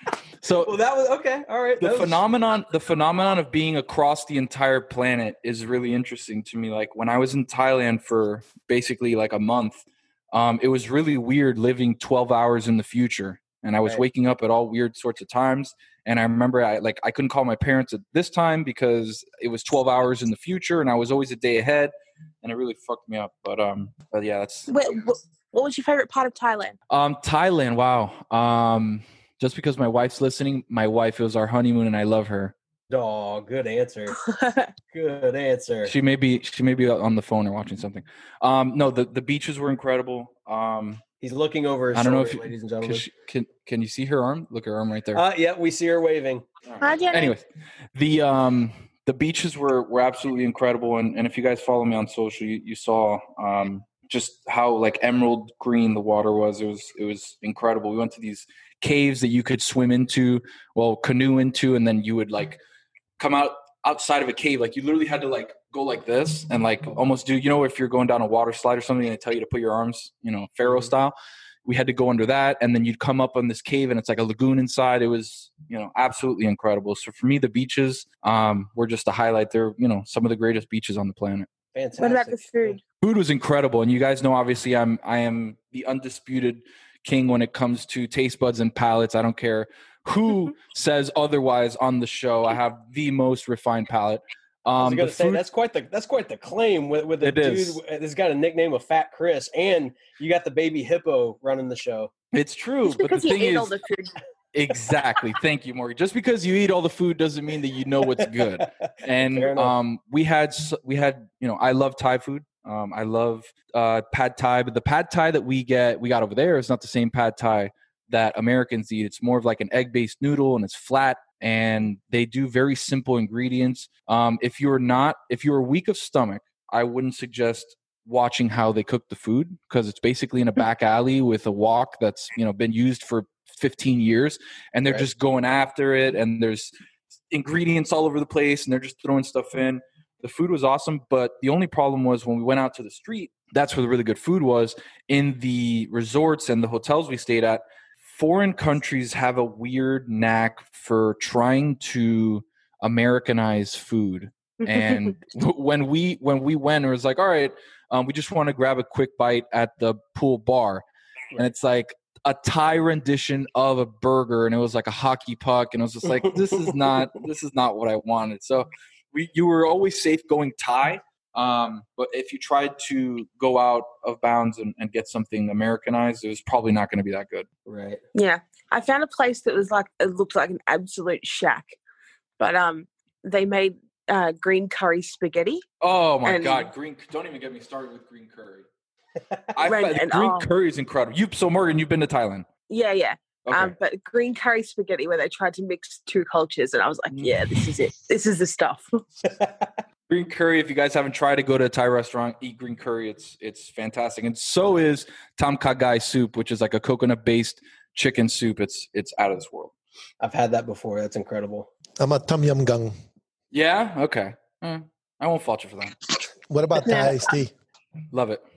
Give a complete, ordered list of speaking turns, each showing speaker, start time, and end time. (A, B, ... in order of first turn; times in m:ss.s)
0:00.4-0:00.7 A
0:00.6-0:02.2 B
0:01.8-0:24.7 A
0:24.7-0:26.8 C
0:26.9-0:32.5 A
0:32.9-0:34.1 B
0:34.1-0:34.7 C
0:34.9-0:35.9 B
0:35.8-0:41.0 A
0:41.2-0:43.0 B
0:41.9-0:45.2 A
0:45.1-0:46.4 B
0:46.6-0:47.4 A
0:46.8-0:47.4 C
0:47.9-1:02.6 A
1:03.2-1:11.1 A
1:11.6-1:21.5 A
1:21.7-1:22.8 B
1:22.0-1:22.8 C
1:23.0-1:35.4 A
1:34.8-1:42.1 B
1:37.2-1:37.8 A
1:42.3-1:43.7 A
1:42.9-1:44.2 C
1:44.5-2:16.7 A
1:48.2-1:49.7 B
2:17.3-2:40.8 A
2:41.4-2:57.5 A
2:46.1-2:47.0 B
2:57.7-2:58.0 B
2:58.1-3:01.8 C
3:02.4-3:05.6 C
3:05.8-3:08.6 A
3:06.2-3:06.7 C
3:09.6-3:12.5 A
3:09.6-3:10.5 C
3:12.7-3:19.0 C
3:13.4-3:13.7 A
3:17.1-3:17.6 A
3:19.3-3:19.8 B
3:20.1-3:29.7 A
3:30.2-3:31.7 B
3:32.0-3:32.9 D
3:33.5-3:36.0 A
3:36.5-3:37.5 D
3:36.8-3:37.3 C
3:38.1-3:38.4 A